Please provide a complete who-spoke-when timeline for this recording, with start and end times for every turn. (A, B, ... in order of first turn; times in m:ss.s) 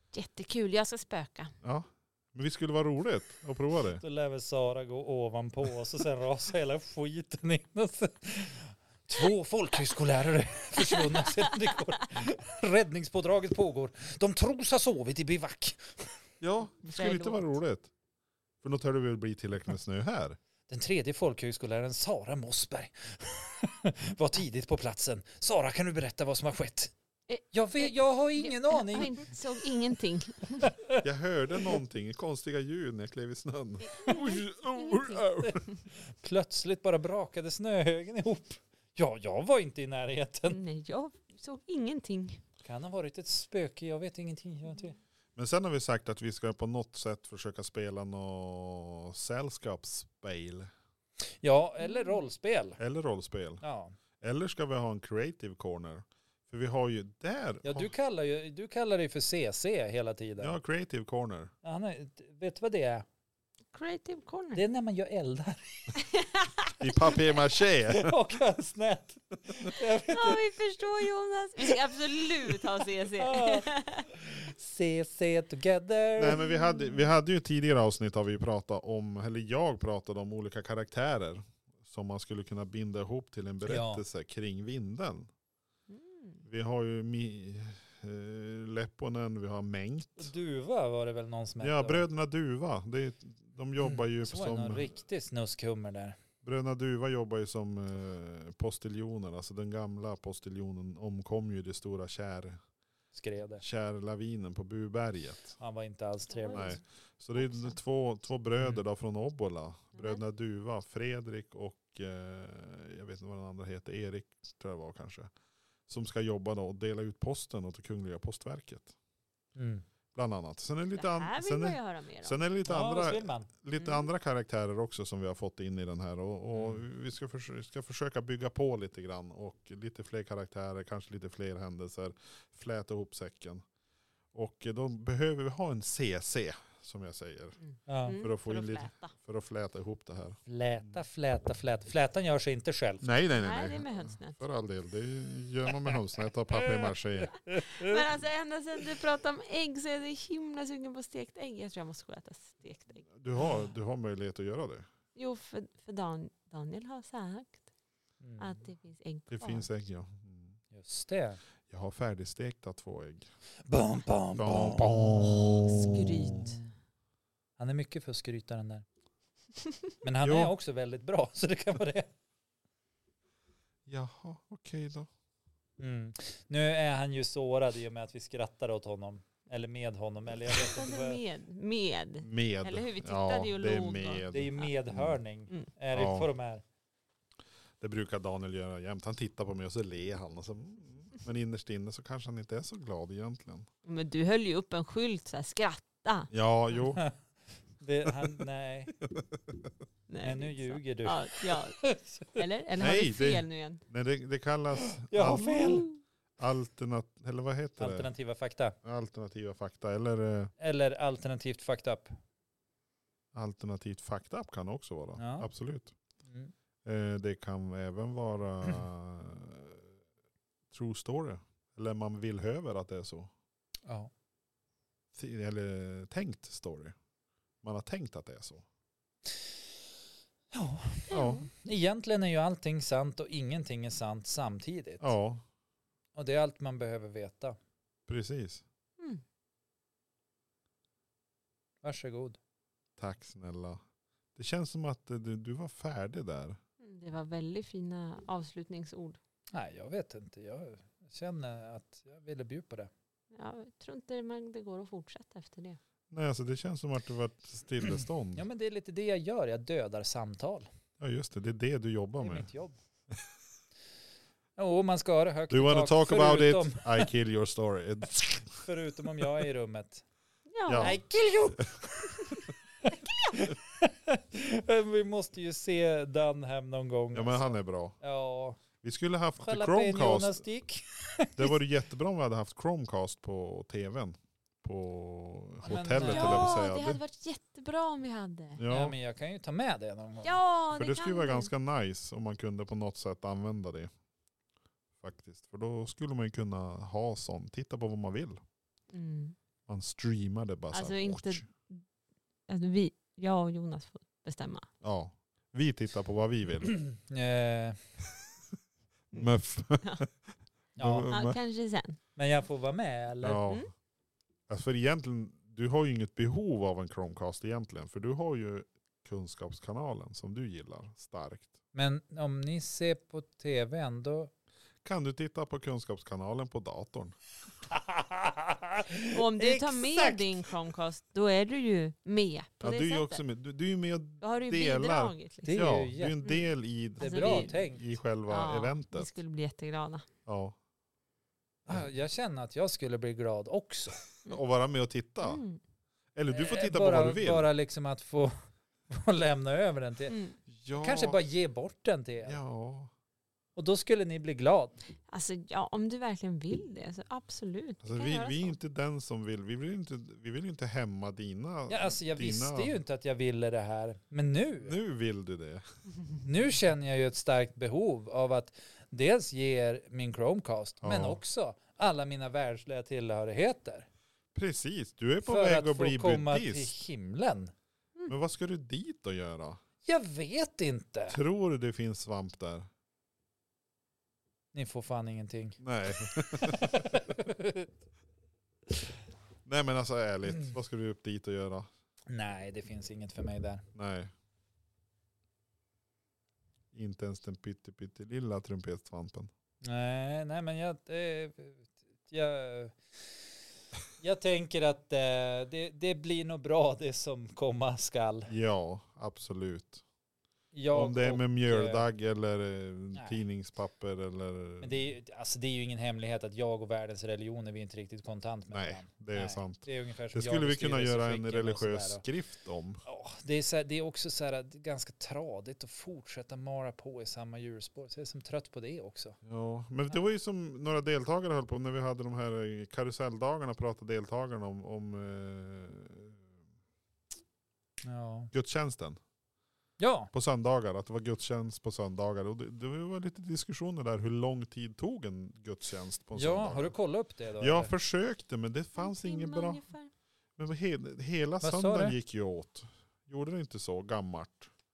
0:00.1-0:01.5 A
0:01.6-0:04.0 B
0:04.0-0:16.1 C
0:10.9-0:11.4 A
0:16.4-0:17.9 B
0:16.8-0:17.6 A
0:18.6-0:20.4 B
0:20.7-0:26.9 C
0:27.3-0:30.7 A
0:27.5-0:29.2 C
0:30.6-0:31.0 C
0:31.0-0:35.6 B
0:33.8-0:35.8 A
0:35.9-0:40.6 C
0:40.5-0:42.4 A
0:42.6-0:45.0 C
0:45.4-0:50.7 B
0:51.4-0:52.8 C
0:51.8-0:52.2 A
0:52.8-0:53.6 B
0:53.6-0:54.0 C
0:54.2-0:57.9 B
0:57.6-1:00.6 C
1:00.4-1:01.5 B
1:01.6-1:03.0 C
1:03.7-1:04.6 A
1:04.5-1:05.9 C
1:05.9-1:07.3 A
1:06.8-1:08.1 B
1:07.9-1:10.4 C
1:10.0-1:14.0 A
1:13.2-1:16.4 C
1:16.2-1:25.3 B
1:16.3-1:17.1 A
1:23.6-1:24.0 C
1:25.9-1:26.4 A
1:26.4-1:30.3 B
1:30.2-1:32.0 C
1:31.6-1:34.9 B
1:33.8-1:36.2 C
1:36.4-1:42.6 B
1:43.1-1:43.6 C
1:43.6-1:45.6 B
1:45.6-1:46.7 C
1:46.3-1:46.8 A
1:46.5-1:55.3 B
1:47.4-1:47.7 A
1:55.9-1:58.9 B
1:59.6-1:59.8 C
2:00.1-2:13.6 B
2:00.9-2:02.4 A
2:02.6-2:03.5 C
2:03.8-2:04.1 A
2:06.5-2:06.8 C
2:14.3-2:17.6 B
2:17.6-2:19.1 A
2:17.9-2:18.2 C
2:18.2-2:21.0 B
2:20.5-2:23.0 C
2:23.0-2:27.3 B
2:23.3-2:24.4 A
2:26.5-2:28.0 C
2:27.5-2:33.1 A
2:33.1-2:34.9 B
2:35.1-2:37.6 A
2:38.2-2:38.6 C
2:38.4-2:39.6 A
2:39.3-2:40.6 B
2:40.7-2:41.4 C
2:41.7-2:43.3 B
2:43.6-2:45.1 C
2:44.3-2:46.4 B
2:45.4-2:46.6 A
2:47.6-2:48.8 C
2:50.0-2:52.1 C
2:50.2-2:50.5 B
2:53.8-2:55.1 B
2:55.8-3:01.2 C
3:00.5-3:04.7 A
3:02.2-3:05.2 B
3:04.3-3:06.6 C
3:05.9-3:06.3 B
3:07.8-3:13.7 B
3:13.8-3:16.3 A
3:16.3-3:17.0 B
3:17.8-3:19.0 C
3:19.1-3:19.7 B
3:20.1-3:23.8 A
3:20.2-3:22.4 C
3:22.8-3:25.8 B
3:24.9-3:25.9 C
3:25.7-3:26.0 A
3:26.4-3:28.1 B
3:27.8-3:28.8 C
3:28.8-3:30.5 B
3:30.6-3:32.2 C
3:33.3-3:35.9 B
3:35.2-3:35.5 C
3:36.8-3:39.8 B
3:40.7-3:43.3 B
3:43.8-3:44.1 C
3:45.1-3:46.9 B
3:47.6-3:48.6 B
3:50.5-3:55.1 C
3:51.1-3:51.5 A
3:51.1-3:51.5 B
3:55.0-3:55.4 B
3:56.1-3:57.6 C
3:58.1-3:58.6 B
4:01.8-4:02.4 C
4:03.0-4:03.8 B
4:04.3-4:06.6 B
4:06.8-4:09.2 A
4:09.5-4:12.9 C
4:13.3-4:15.8 A
4:16.1-4:18.4 B
4:18.3-4:20.7 C
4:21.0-4:22.5 B
4:22.2-4:22.8 C
4:24.6-4:27.1 C
4:25.5-4:28.6 B
4:28.6-4:30.0 C
4:30.5-4:31.0 A
4:30.6-4:31.0 B
4:30.8-4:38.6 C
4:37.1-4:38.0 B
4:38.8-4:40.4 B
4:39.4-4:41.5 C
4:41.4-4:47.0 B
4:45.6-4:46.6 C
4:45.9-4:48.6 A
4:48.6-4:48.9 B
4:48.7-4:50.4 C
4:50.2-4:51.5 A
4:50.7-4:53.9 B
4:55.0-4:58.4 B
4:58.9-4:59.4 A
4:59.7-5:01.5 B
5:00.7-5:01.8 A
5:02.5-5:04.7 A
5:04.8-5:06.7 B
5:06.7-5:07.8 C
5:09.1-5:10.1 B
5:10.8-5:11.1 C
5:10.8-5:11.4 B
5:11.1-5:12.0 A
5:12.2-5:13.4 C
5:13.2-5:13.7 B
5:14.5-5:21.5 B
5:21.7-5:24.3 C
5:24.8-5:27.2 B
5:27.7-5:30.4 C
5:29.1-5:33.2 A
5:32.6-5:39.1 B
5:34.2-5:36.5 A
5:35.4-5:36.2 C
5:37.0-5:37.8 C
5:37.0-5:37.6 A
5:38.3-5:40.1 A
5:40.2-5:40.6 B
5:41.7-5:44.0 C
5:44.2-5:45.4 B
5:45.2-5:45.6 A
5:46.1-5:47.5 B
5:46.3-5:48.3 C
5:48.9-5:50.2 C
5:50.1-5:50.4 A
5:50.5-5:51.2 B
5:50.8-5:52.4 C
5:52.2-5:52.9 B
5:53.6-5:54.8 C
5:55.1-5:58.6 A
5:57.8-6:02.8 B
6:01.7-6:04.8 C
6:04.6-6:05.6 B
6:06.2-6:13.9 C
6:10.8-6:11.2 B
6:14.3-6:16.7 B
6:15.2-6:17.5 C
6:18.1-6:19.6 B
6:19.8-6:21.2 C
6:21.1-6:22.7 B
6:24.5-6:25.6 C
6:25.6-6:27.1 B
6:26.4-6:27.7 C
6:29.4-6:31.7 B
6:32.1-6:33.6 C
6:33.7-6:34.1 B
6:36.7-6:39.3 B
6:39.6-6:42.8 C
6:44.0-6:48.3 C
6:48.3-6:49.8 B
6:50.5-6:51.8 C
6:50.7-6:54.9 B
6:52.9-6:53.2 C
6:54.6-7:02.0 C
6:58.5-7:02.8 B
7:02.8-7:09.2 C
7:09.2-7:16.2 B
7:17.8-7:18.3 C
7:18.3-7:19.0 B
7:19.8-7:20.1 C
7:20.1-7:26.7 B
7:26.1-7:27.7 C
7:27.4-7:29.6 B
7:28.8-7:29.9 A
7:30.4-7:34.5 B
7:31.4-7:32.0 C